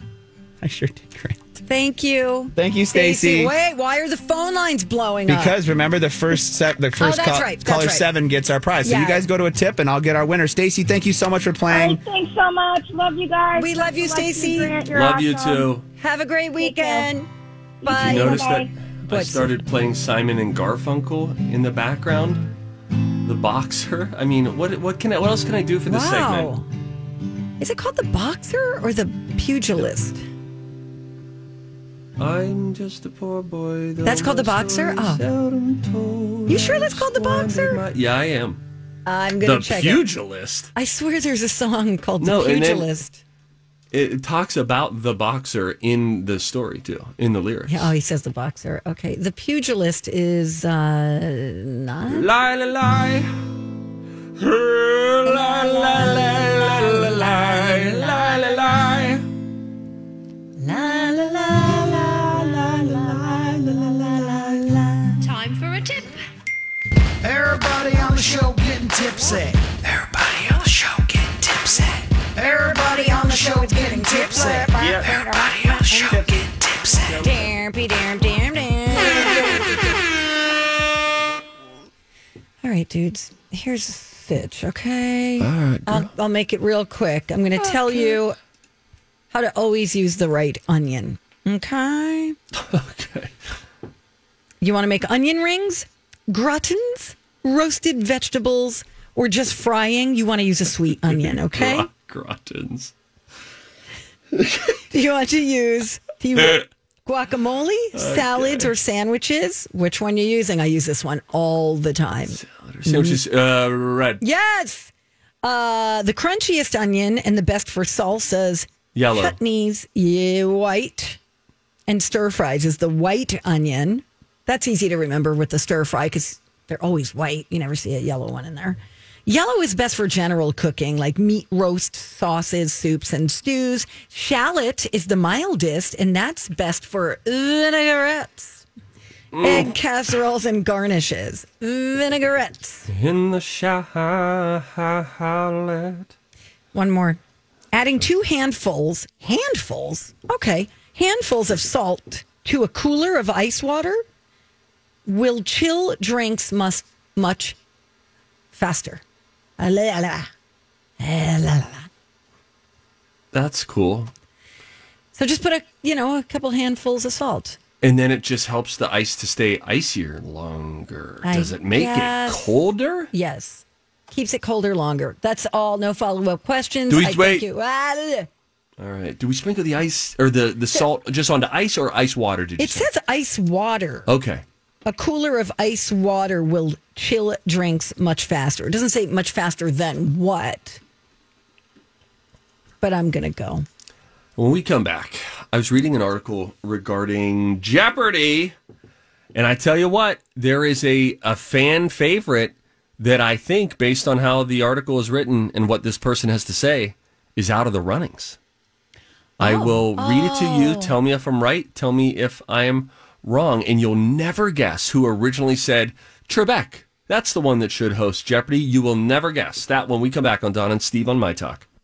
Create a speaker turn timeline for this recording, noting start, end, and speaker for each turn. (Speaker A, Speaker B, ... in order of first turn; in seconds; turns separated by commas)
Speaker A: 0.6-1.4, Speaker B: 1.7-5.5, Speaker A: 2.5-3.5, Speaker A: 5.3-12.0, Speaker B: 7.0-8.1, Speaker B: 8.8-9.2, Speaker C: 11.7-15.7, Speaker B: 13.6-14.7, Speaker D: 14.9-15.8, Speaker B: 16.0-17.3, Speaker C: 16.6-17.1, Speaker C: 17.8-18.7, Speaker B: 17.9-18.4, Speaker D: 17.9-22.5, Speaker B: 19.1-19.6, Speaker D: 23.2-26.5, Speaker B: 25.9-26.7, Speaker B: 27.6-30.2, Speaker D: 32.2-38.6, Speaker B: 34.0-35.2, Speaker B: 36.5-37.8, Speaker B: 39.0-40.0, Speaker D: 39.4-40.7, Speaker B: 40.7-43.2, Speaker D: 42.2-42.9, Speaker D: 43.9-47.9, Speaker B: 47.7-52.3, Speaker D: 52.1-53.3, Speaker D: 54.4-59.2, Speaker B: 55.2-58.6, Speaker B: 60.6-65.4, Speaker E: 67.2-77.3, Speaker B: 73.0-76.4, Speaker D: 74.8-75.0, Speaker D: 77.0-77.5, Speaker B: 77.1-80.0, Speaker B: 82.6-88.4, Speaker D: 85.4-86.1, Speaker D: 87.6-88.2, Speaker B: 89.3-92.3, Speaker D: 92.5-93.3, Speaker B: 94.6-101.9, Speaker D: 101.1-102.9, Speaker D: 104.3-104.8, Speaker B: 104.9-113.2, Speaker D: 107.9-108.7, Speaker D: 112.3-114.2, Speaker B: 114.2-114.9, Speaker B: 115.4-121.2, Speaker D: 118.9-119.4, Speaker B: 121.9-138.6, Speaker D: 139.3-139.7, Speaker B: 139.4-142.9, Speaker D: 142.9-146.1, Speaker B: 146.7-147.2, Speaker B: 147.7-154.0, Speaker B: 155.1-157.6, Speaker B: 158.5-159.0, Speaker B: 159.6-160.3, Speaker B: 161.0-161.9, Speaker D: 163.3-164.1, Speaker B: 165.1-167.6, Speaker D: 167.8-173.1, Speaker B: 171.2-172.5, Speaker B: 173.1-178.3, Speaker D: 176.9-177.4, Speaker D: 178.8-182.9, Speaker B: 182.6-184.1, Speaker D: 184.1-184.4, Speaker B: 184.8-190.8, Speaker B: 192.8-193.6, Speaker D: 194.4-198.5, Speaker D: 199.3-208.4, Speaker D: 209.4-221.7, Speaker B: 209.4-210.9